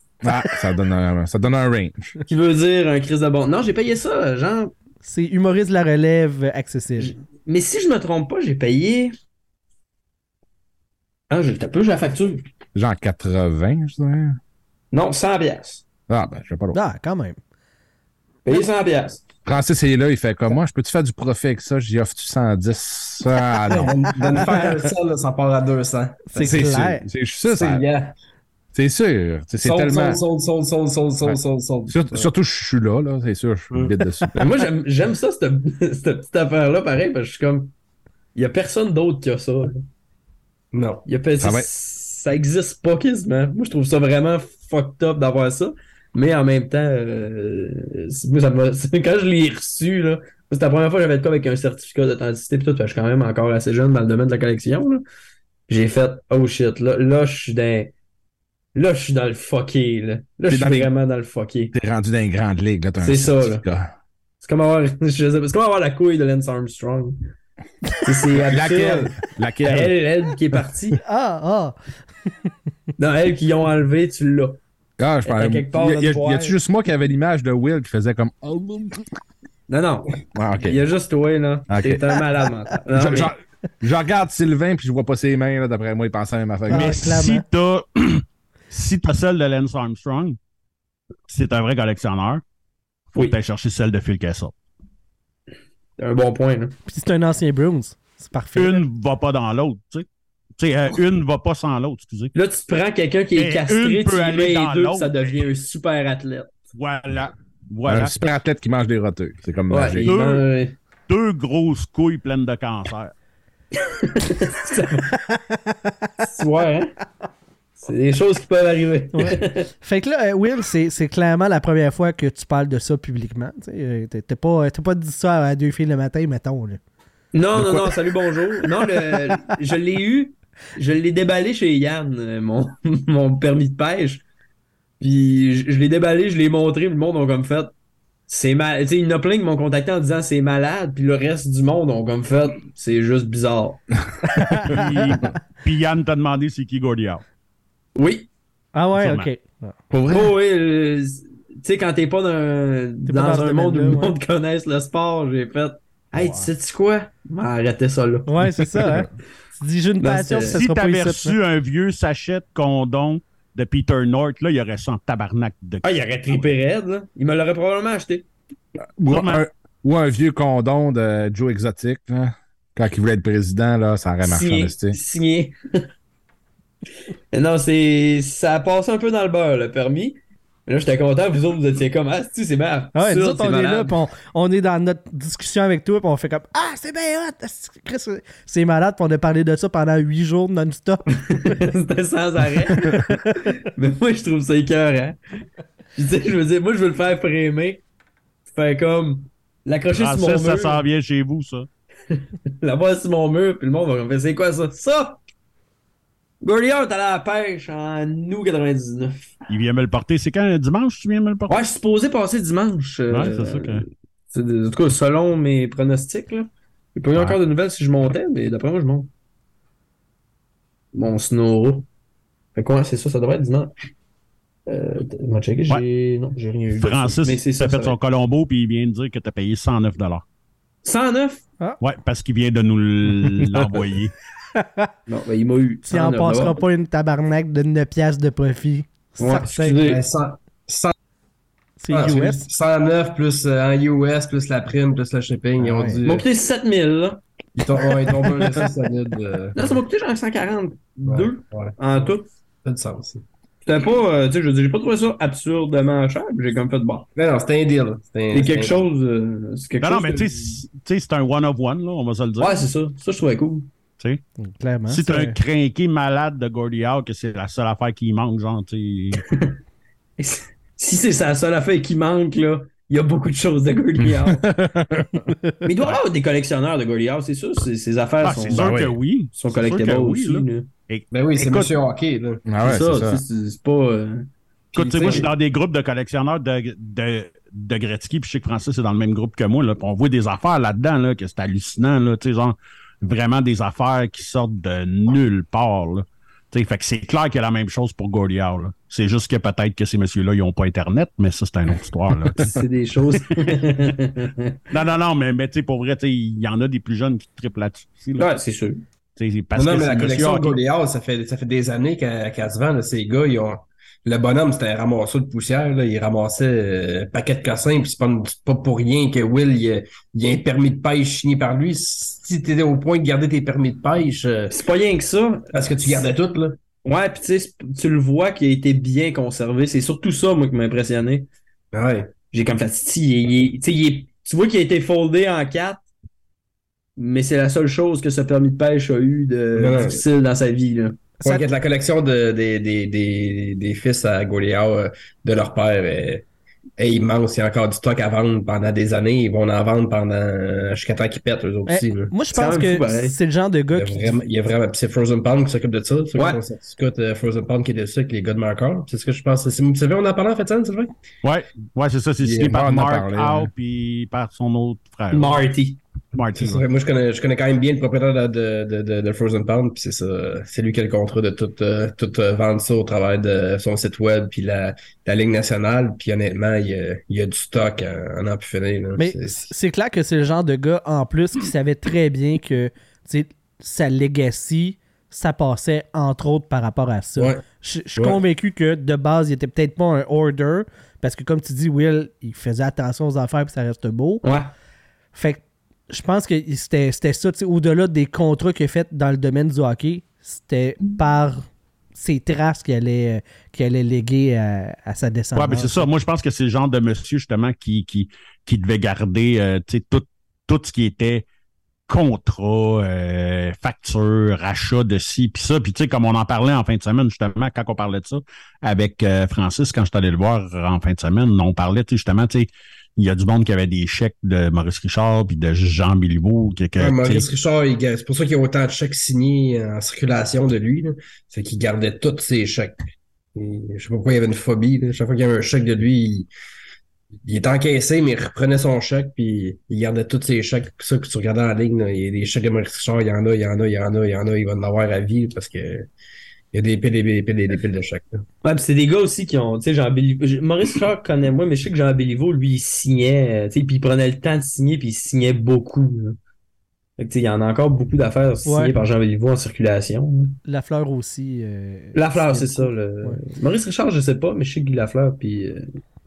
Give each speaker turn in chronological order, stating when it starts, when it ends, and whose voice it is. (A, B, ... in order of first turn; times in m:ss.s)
0:00.2-0:02.1 A
0:02.3-0:04.7 B
0:05.0-0:07.2 C
0:07.0-0:09.1 B
0:11.3-0:12.4 B
0:12.8-0:14.4 A
0:14.9-0:15.8 B
0:16.1-0:16.8 A
0:16.7-0:17.4 C
0:18.4-0:19.2 B
0:19.4-0:24.0 A
0:23.7-0:26.3 D
0:26.3-0:27.0 C
0:26.4-0:27.8 A
0:27.5-0:28.1 D
0:28.7-0:30.2 A
0:29.6-0:32.3 D
0:31.2-0:34.5 A
0:34.4-0:37.7 B
0:38.4-0:39.8 B
0:40.7-0:41.0 D
0:41.1-0:55.0 B
0:41.4-0:41.7 A
0:55.7-0:57.9 B
0:58.8-1:01.7 B
1:00.5-1:00.9 A
1:01.7-1:03.9 A
1:03.0-1:03.6 B
1:04.4-1:07.2 B
1:08.0-1:11.0 B
1:08.3-1:10.0 A
1:11.0-1:11.8 C
1:13.0-1:14.6 B
1:15.0-1:19.1 A
1:15.3-1:16.6 B
1:19.7-1:23.3 B
1:20.3-1:20.8 A
1:21.7-1:22.2 A
1:22.9-1:27.0 A
1:26.7-1:27.4 C
1:26.7-1:30.4 E
1:31.3-1:32.4 E
1:33.1-1:34.5 E
1:36.0-1:36.8 B
1:36.9-1:38.8 C
1:38.6-1:40.1 E
1:40.6-1:42.3 E
1:42.4-1:46.5 B
1:43.4-1:45.4 E
1:46.7-1:48.2 E
1:47.9-1:50.1 A
1:49.7-1:50.8 B
1:50.0-1:50.5 E
1:51.1-1:53.1 E
1:53.8-1:55.1 B
1:55.3-1:55.8 C
1:56.2-1:56.9 B
1:57.8-1:59.7 B
1:59.1-2:06.8 C
2:07.3-2:14.2 B
2:09.1-2:09.4 C
2:15.0-2:17.7 B
2:18.3-2:24.0 B
2:24.5-2:24.8 C
2:24.6-2:27.2 E
2:28.0-2:28.3 B
2:28.7-2:29.8 C
2:28.9-2:29.3 E
2:29.9-2:30.3 A
2:30.1-2:38.6 B
2:33.1-2:34.2 C
2:38.3-2:41.4 C
2:40.0-2:40.6 B
2:40.5-2:45.9 E
2:45.8-2:48.3 B
2:49.0-2:55.0 A
2:49.1-2:49.4 E
2:54.2-2:55.6 B
2:57.3-3:03.9 B
3:03.0-3:11.5 C
3:11.1-3:15.2 B
3:16.0-3:17.8 B
3:18.5-3:20.8 B
3:19.9-3:21.7 E
3:22.1-3:25.2 B
3:26.4-3:29.3 B
3:29.5-3:31.6 E
3:31.5-3:39.1 B
3:33.1-3:33.8 E
3:40.9-3:41.9 B
3:42.6-3:43.7 B
3:44.7-3:48.0 B
3:46.8-3:50.2 E
3:50.8-3:51.4 B
3:51.8-3:54.2 E
3:54.6-3:54.9 C
3:55.1-3:56.6 B
3:55.9-4:00.0 C
3:59.2-4:00.0 B
3:59.6-4:00.9 D
4:01.8-4:02.5 C
4:01.9-4:06.3 D
4:05.6-4:06.0 C
4:06.0-4:07.2 B
4:07.6-4:09.8 D
4:08.2-4:08.6 B
4:09.6-4:12.3 B
4:11.1-4:12.1 D
4:12.6-4:13.2 D
4:13.6-4:17.1 B
4:17.2-4:18.8 D
4:18.3-4:20.6 B
4:19.8-4:22.6 E
4:22.4-4:23.7 B
4:24.4-4:25.4 C
4:24.9-4:29.2 E
4:29.3-4:29.6 B
4:30.2-4:34.5 B
4:34.0-4:35.3 A
4:35.6-4:38.8 B
4:38.2-4:41.8 E
4:38.5-4:39.0 A
4:39.4-4:40.7 B
4:41.1-4:42.4 D
4:42.4-4:43.2 A
4:42.6-4:45.3 B
4:44.7-4:45.3 D
4:44.7-5:02.6 E
5:02.4-5:04.6 B
5:04.7-5:08.3 E
5:08.2-5:08.8 B
5:09.2-5:10.6 E
5:09.6-5:24.6 D
5:24.5-5:26.1 B
5:25.5-5:26.6 D
5:26.8-5:31.3 B
5:31.7-5:32.2 D
5:32.3-5:35.8 B
5:37.0-5:41.2 B
5:39.5-5:40.0 D
5:41.2-5:46.2 D
5:46.8-5:52.2 D
5:51.7-5:54.2 C
5:52.3-5:53.2 B
5:53.7-6:00.9 D
5:56.2-5:56.4 B
6:01.2-6:05.4 E
6:02.2-6:03.5 A
6:05.1-6:05.8 B
6:06.1-6:06.6 E
6:06.4-6:19.5 D
6:19.0-6:34.2 C
6:27.2-6:27.4 D
6:34.2-6:34.5 B
6:35.1-6:45.9 C
6:45.4-6:51.3 E
6:51.9-7:07.3 E
7:06.8-7:12.8 D
7:13.4-7:16.3 D
7:17.3-7:25.9 D
7:26.5-7:28.2 D
7:28.4-7:36.2 B
7:37.0-7:40.4 B
7:38.5-7:38.8 C
7:40.5-7:43.2 C
7:42.0-7:45.7 B